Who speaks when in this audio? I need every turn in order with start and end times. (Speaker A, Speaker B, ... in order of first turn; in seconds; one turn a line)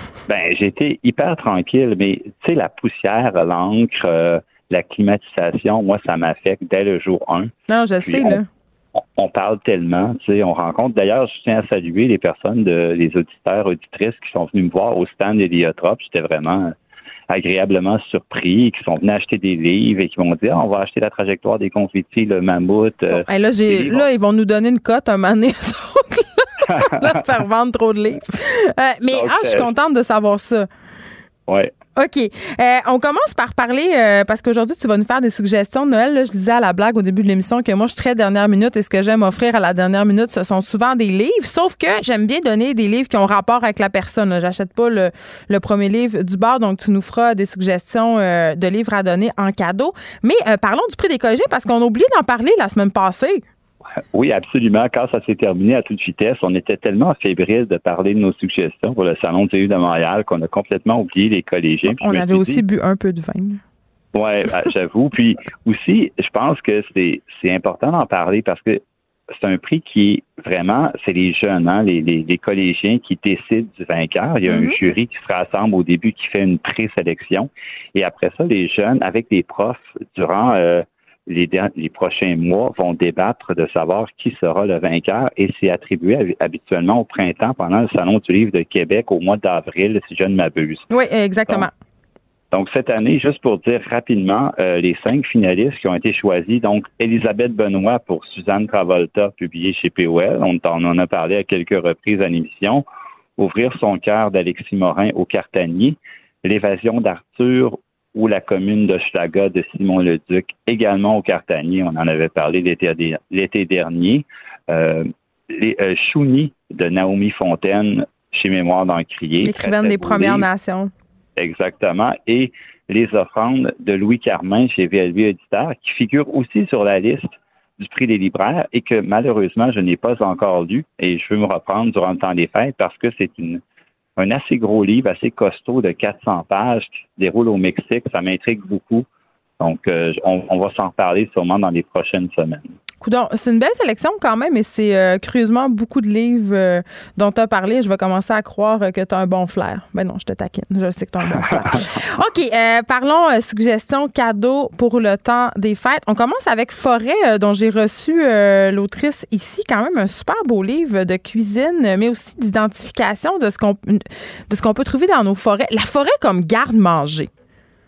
Speaker A: 0.3-8.4
Speaker B: 7.7-8.5
Speaker A: 9.2-16.7
Speaker A: 17.3-24.1
Speaker B: 23.1-30.7
Speaker A: 29.1-29.7
Speaker B: 32.0-53.4
Speaker A: 54.1-62.6
Speaker B: 61.9-63.6
Speaker A: 64.2-68.8
Speaker A: 69.3-90.9
Speaker B: 74.5-74.8
Speaker B: 90.9-91.7
Speaker A: 92.5-102.8
Speaker A: 103.4-120.5
Speaker B: 119.4-120.9
Speaker A: 121.4-133.6
Speaker A: 134.2-139.1
Speaker A: 139.6-142.7
Speaker B: 143.0-167.3
Speaker A: 151.3-151.9